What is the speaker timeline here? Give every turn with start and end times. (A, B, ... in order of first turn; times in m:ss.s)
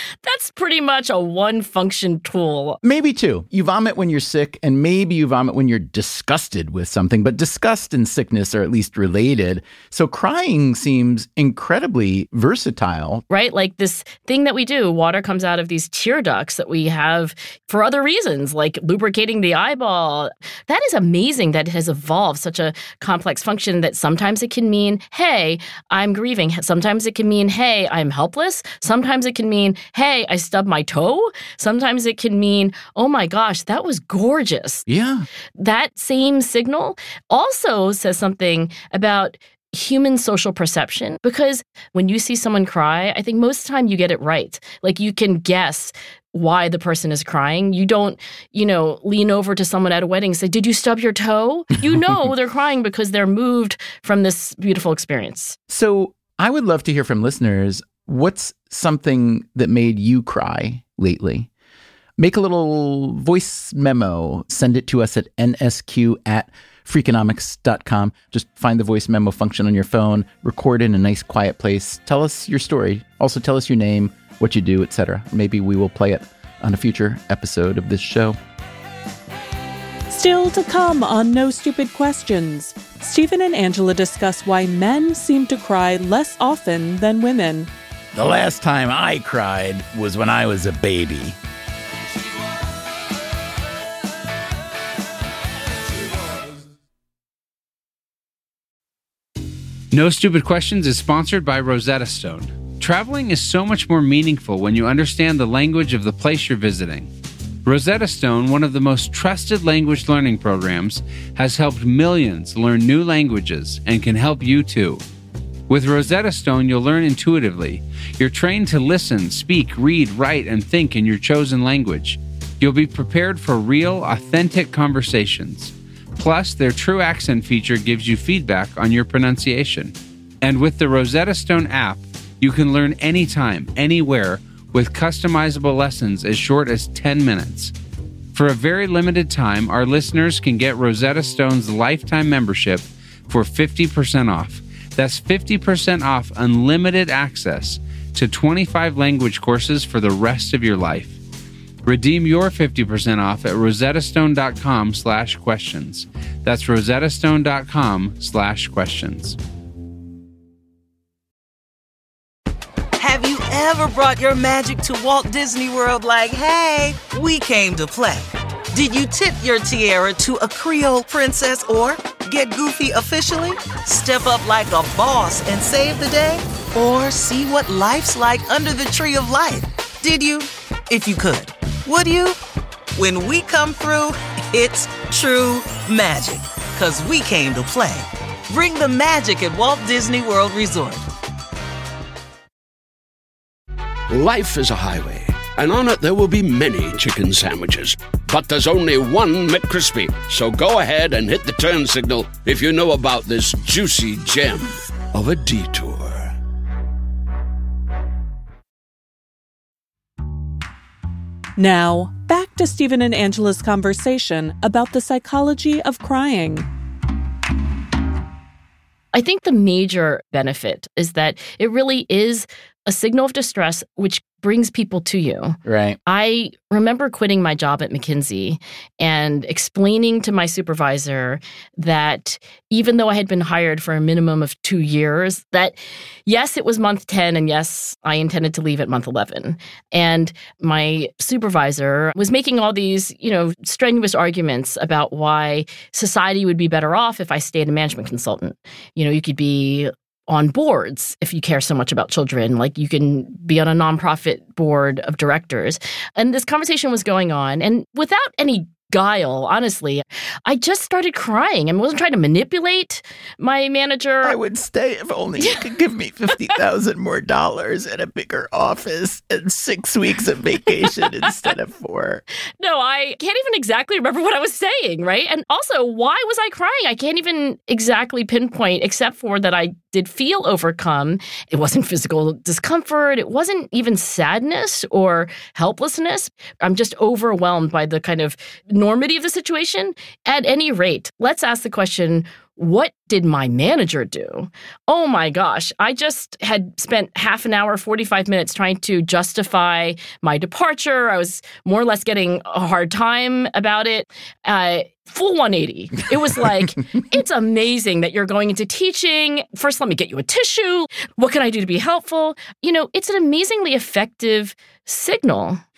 0:00.2-0:02.8 A
0:02.8-0:13.2 B
0:13.3-0:34.9 A
0:34.9-0:35.3 B
0:35.6-0:55.6 A
0:55.7-1:01.5 B
1:02.2-1:18.4 B
1:20.1-1:27.7 C
1:28.1-1:31.4 B
1:39.9-1:47.1 D
1:47.6-1:55.0 D
1:55.7-2:17.7 D
2:18.3-2:31.2 D
2:31.8-2:39.4 D
2:43.0-3:02.4 E
3:03.0-3:11.1 E
3:14.1-3:26.3 F
3:31.6-3:36.7 C
3:39.1-3:55.8 A
3:45.6-3:46.0 B
3:56.3-4:24.4 A
4:24.2-4:32.2 B
4:32.6-5:15.6 A